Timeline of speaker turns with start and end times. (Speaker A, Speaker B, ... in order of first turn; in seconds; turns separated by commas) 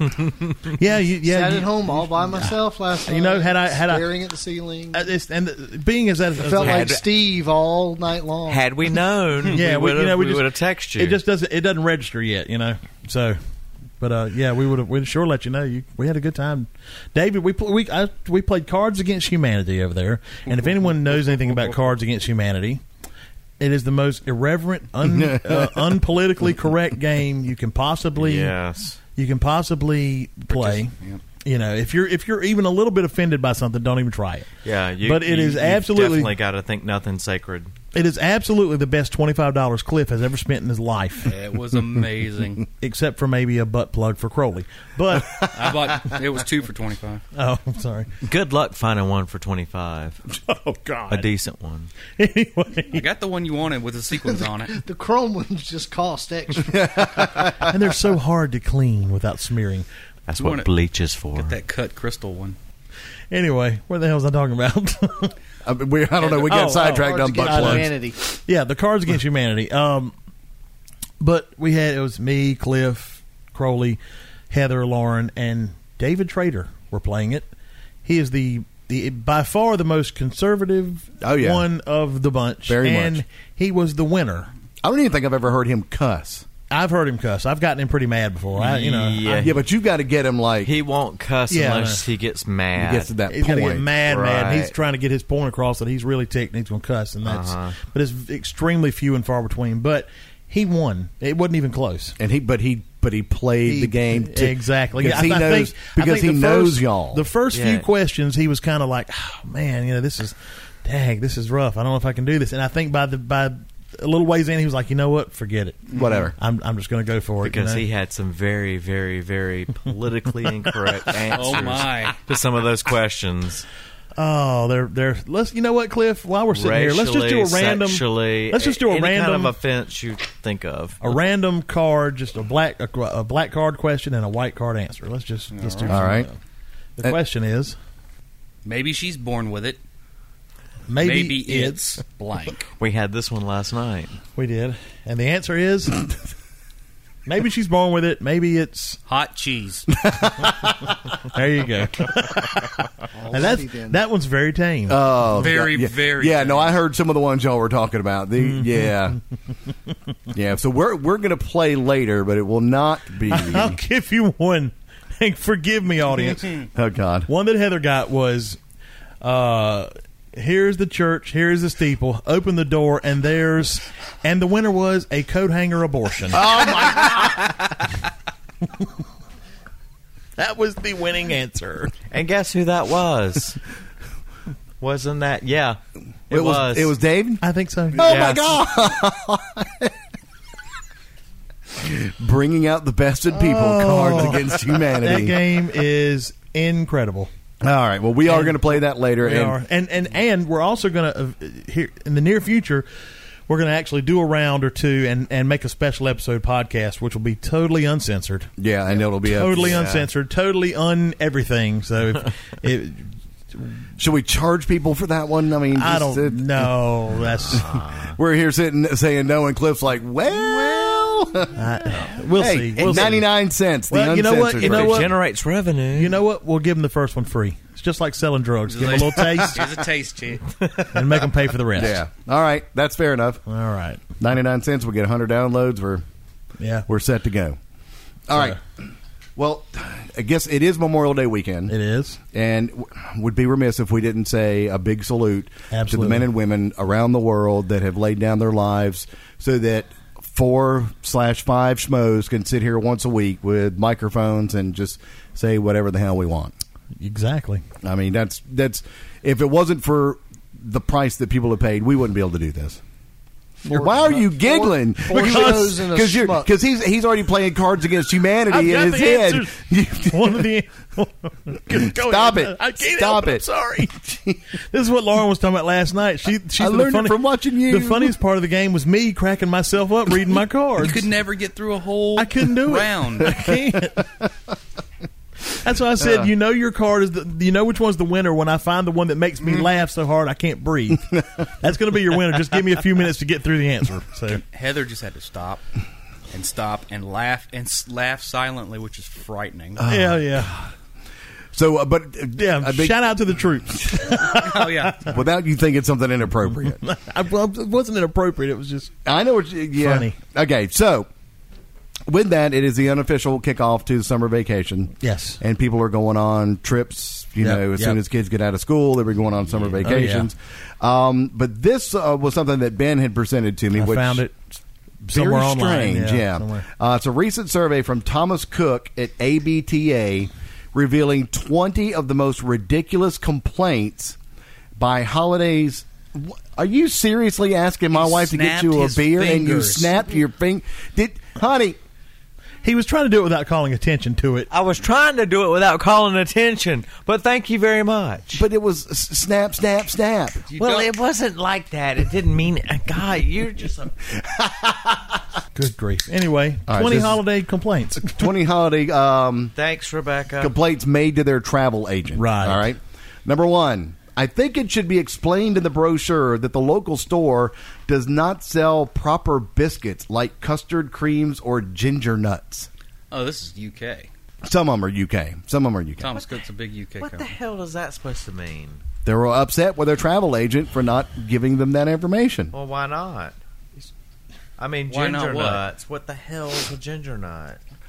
Speaker A: 0.7-4.1, Speaker B: 1.3-5.1, Speaker A: 4.9-7.0, Speaker B: 6.4-8.7, Speaker C: 6.5-7.0, Speaker C: 8.5-11.2, Speaker A: 9.5-13.4, Speaker A: 14.0-22.8, Speaker A: 23.6-28.6, Speaker D: 25.0-25.9, Speaker C: 28.2-29.0, Speaker A: 29.2-30.9, Speaker E: 30.5-31.2, Speaker A: 31.4-34.5, Speaker C: 34.6-37.7, Speaker A: 35.0-36.3, Speaker A: 37.9-41.3, Speaker E: 41.2-42.7, Speaker A: 42.8-45.4, Speaker E: 45.5-47.2, Speaker A: 47.4-48.1, Speaker C: 48.2-50.2, Speaker A: 50.5-51.1, Speaker C: 51.1-51.9, Speaker A: 52.2-53.1, Speaker E: 52.9-54.8, Speaker B: 54.7-57.5, Speaker D: 56.7-57.7, Speaker A: 57.6-59.9, Speaker C: 60.3-61.6, Speaker E: 60.4-60.7, Speaker E: 61.3-62.6, Speaker A: 63.3-65.3, Speaker D: 65.6-67.9, Speaker A: 66.3-70.1, Speaker B: 66.8-68.2, Speaker A: 71.2-74.0, Speaker A: 74.5-77.5, Speaker A: 78.0-84.5, Speaker D: 81.2-81.7, Speaker D: 82.7-83.2, Speaker D: 84.8-86.5, Speaker A: 86.7-89.6, Speaker C: 88.6-89.6, Speaker D: 89.4-90.7, Speaker C: 90.6-93.1, Speaker A: 91.5-92.1, Speaker D: 92.8-93.9, Speaker A: 93.3-102.2, Speaker C: 94.0-94.7, Speaker C: 97.2-97.8, Speaker D: 102.2-107.2, Speaker A: 103.7-117.8, Speaker C: 107.5-107.9, Speaker E: 115.9-116.3, Speaker D: 115.9-116.3, Speaker C: 117.4-123.7, Speaker E: 121.3-122.2, Speaker A: 124.2-129.5, Speaker C: 126.5-131.0, Speaker A: 131.0-136.4, Speaker E: 135.5-136.0, Speaker D: 135.9-136.3, Speaker A: 137.0-137.8, Speaker E: 138.7-139.8, Speaker A: 140.9-142.0, Speaker E: 141.0-142.7, Speaker C: 142.8-144.2, Speaker A: 144.4-146.1, Speaker A: 147.3-149.0, Speaker E: 149.1-149.9, Speaker D: 150.1-150.7, Speaker A: 151.2-152.8, Speaker B: 153.1-154.0, Speaker A: 153.3-155.0, Speaker D: 154.9-159.2, Speaker E: 155.3-156.8, Speaker D: 160.3-163.8, Speaker A: 163.3-166.7, Speaker D: 166.7-167.3, Speaker A: 167.3-168.6, Speaker A: 169.2-176.7, Speaker D: 176.3-177.5, Speaker A: 180.4-181.9, Speaker C: 182.1-183.6, Speaker C: 184.8-186.9, Speaker D: 186.3-187.4, Speaker A: 187.4-188.1, Speaker D: 187.9-189.9, Speaker C: 188.0-188.5, Speaker D: 191.7-195.4, Speaker A: 193.3-197.3, Speaker D: 197.6-199.6, Speaker A: 198.2-202.9, Speaker A: 203.5-208.5, Speaker D: 208.6-210.1, Speaker A: 209.3-213.8, Speaker D: 214.0-216.7, Speaker A: 215.7-217.8, Speaker D: 217.5-221.6, Speaker C: 217.5-218.1, Speaker A: 221.6-223.3, Speaker D: 222.3-225.1, Speaker A: 223.9-225.2, Speaker C: 224.6-226.2, Speaker A: 225.9-229.8, Speaker E: 228.7-230.6, Speaker A: 230.8-232.0, Speaker D: 231.7-233.4, Speaker A: 233.5-234.0, Speaker D: 234.2-236.0, Speaker A: 236.6-236.9, Speaker D: 236.9-237.6, Speaker D: 238.3-238.6, Speaker A: 238.3-238.6, Speaker D: 239.4-241.7, Speaker A: 241.7-242.2, Speaker D: 242.3-256.5, Speaker A: 245.7-246.3, Speaker A: 257.0-257.6, Speaker D: 257.8-262.8, Speaker B: 263.7-266.5, Speaker D: 263.7-270.5, Speaker A: 265.1-265.8, Speaker A: 268.5-281.1, Speaker D: 271.7-274.4, Speaker D: 276.6-278.1, Speaker E: 280.8-283.5, Speaker A: 282.2-284.1, Speaker A: 285.6-294.4, Speaker D: 286.0-286.3, Speaker E: 294.4-295.6, Speaker E: 296.3-299.9, Speaker D: 299.8-300.7, Speaker A: 299.9-300.6, Speaker D: 301.5-303.0, Speaker A: 302.4-305.1, Speaker E: 304.3-305.1, Speaker D: 305.1-306.8, Speaker A: 306.8-308.9, Speaker D: 309.1-311.1, Speaker A: 309.8-310.2, Speaker D: 312.1-324.2, Speaker A: 315.0-315.4, Speaker A: 317.4-318.0, Speaker A: 319.8-320.3, Speaker A: 323.7-324.3, Speaker A: 325.1-326.7, Speaker D: 325.1-334.2, Speaker D: 334.8-341.8, Speaker E: 337.9-340.0, Speaker A: 342.6-344.5, Speaker C: 344.5-348.4, Speaker D: 348.3-350.4, Speaker E: 350.5-350.9, Speaker C: 350.6-354.1, Speaker A: 355.6-358.2, Speaker D: 356.7-357.2, Speaker D: 358.0-359.5, Speaker C: 359.6-360.6, Speaker D: 360.4-372.7, Speaker A: 362.2-362.7, Speaker E: 373.1-374.1, Speaker D: 374.4-376.1, Speaker E: 376.0-377.3, Speaker C: 376.1-376.4, Speaker C: 377.0-378.8, Speaker D: 379.1-382.5, Speaker C: 382.5-383.4, Speaker C: 384.6-387.6, Speaker E: 384.9-385.7